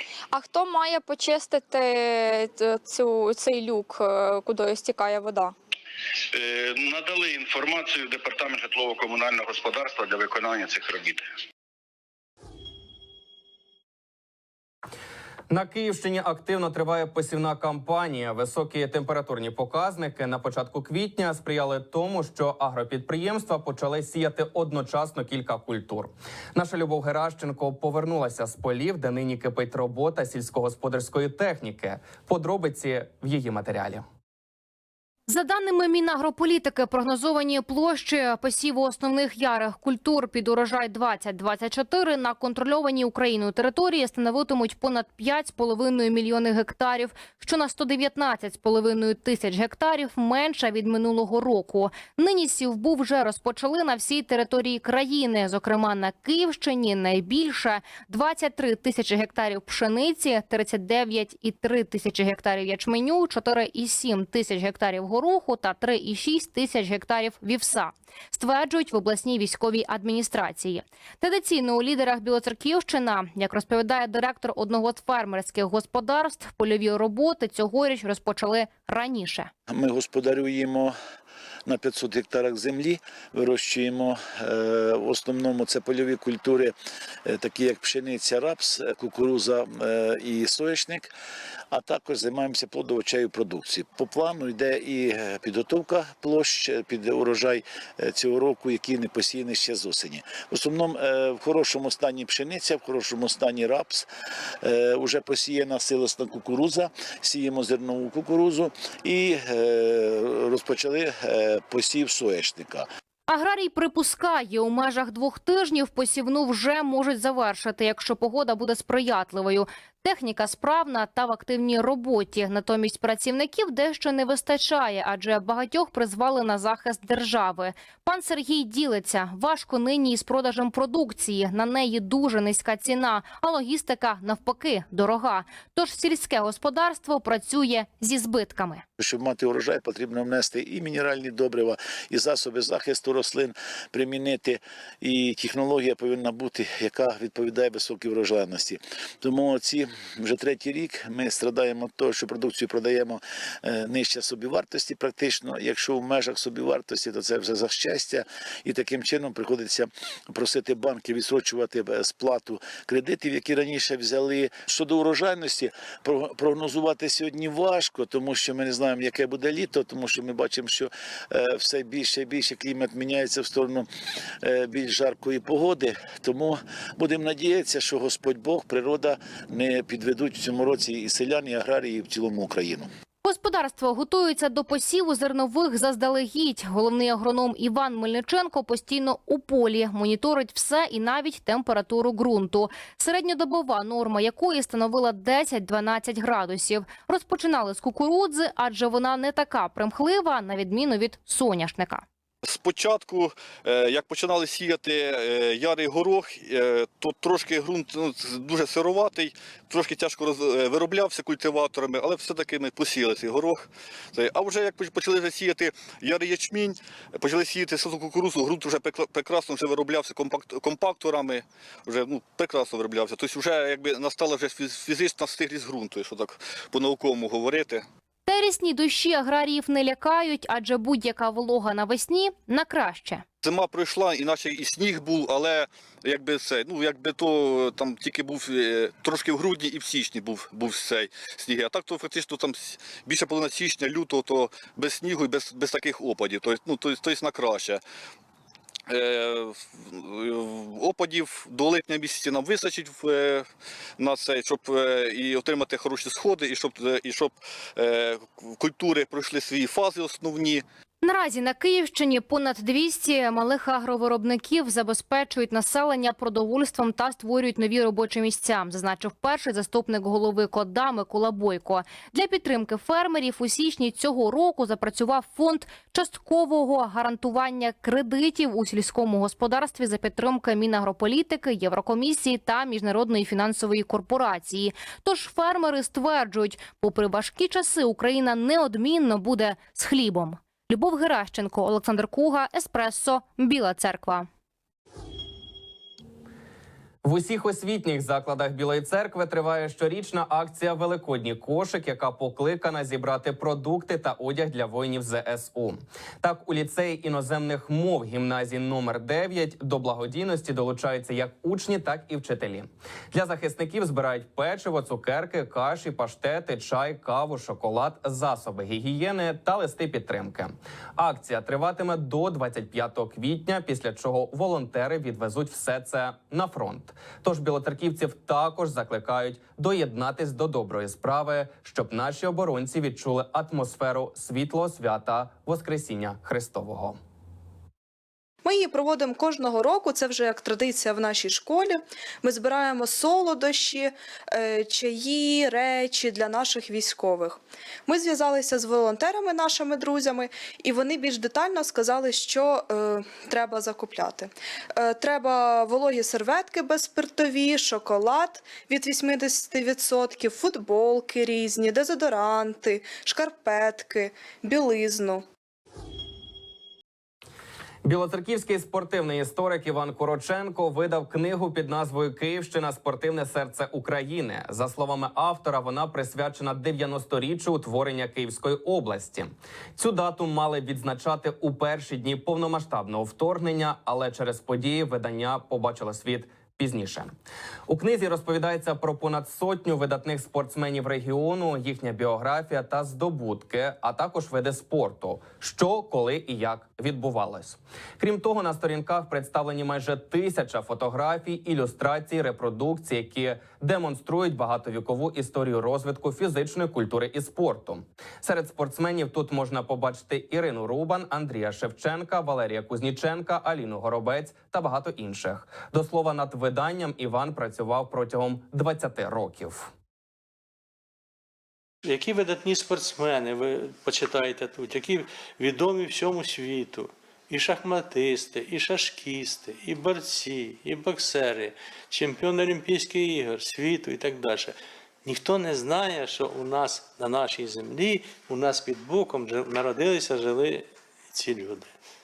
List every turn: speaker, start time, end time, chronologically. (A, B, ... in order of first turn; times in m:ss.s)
0:00.3-0:05.5 A
0:06.3-0:11.2 B
0:15.5-0:34.0 C
0:35.3-1:19.5 D
1:19.7-1:21.0 E
1:21.7-1:26.7 E
1:27.2-1:31.1 E
1:31.7-1:44.1 E
1:44.6-1:52.9 E
1:53.3-2:18.8 D
2:19.0-2:53.9 E
2:54.4-3:02.9 E
3:03.2-3:22.0 D
3:22.4-3:47.8 F
3:48.2-3:53.2 D
3:53.4-4:07.8 F
4:08.9-4:13.5 F
4:14.0-4:20.6 F
4:21.0-4:54.3 D
4:57.0-5:37.0 C
5:38.4-6:05.2 G
6:07.8-6:27.1 C
6:27.7-6:59.7 C
7:01.8-7:21.7 H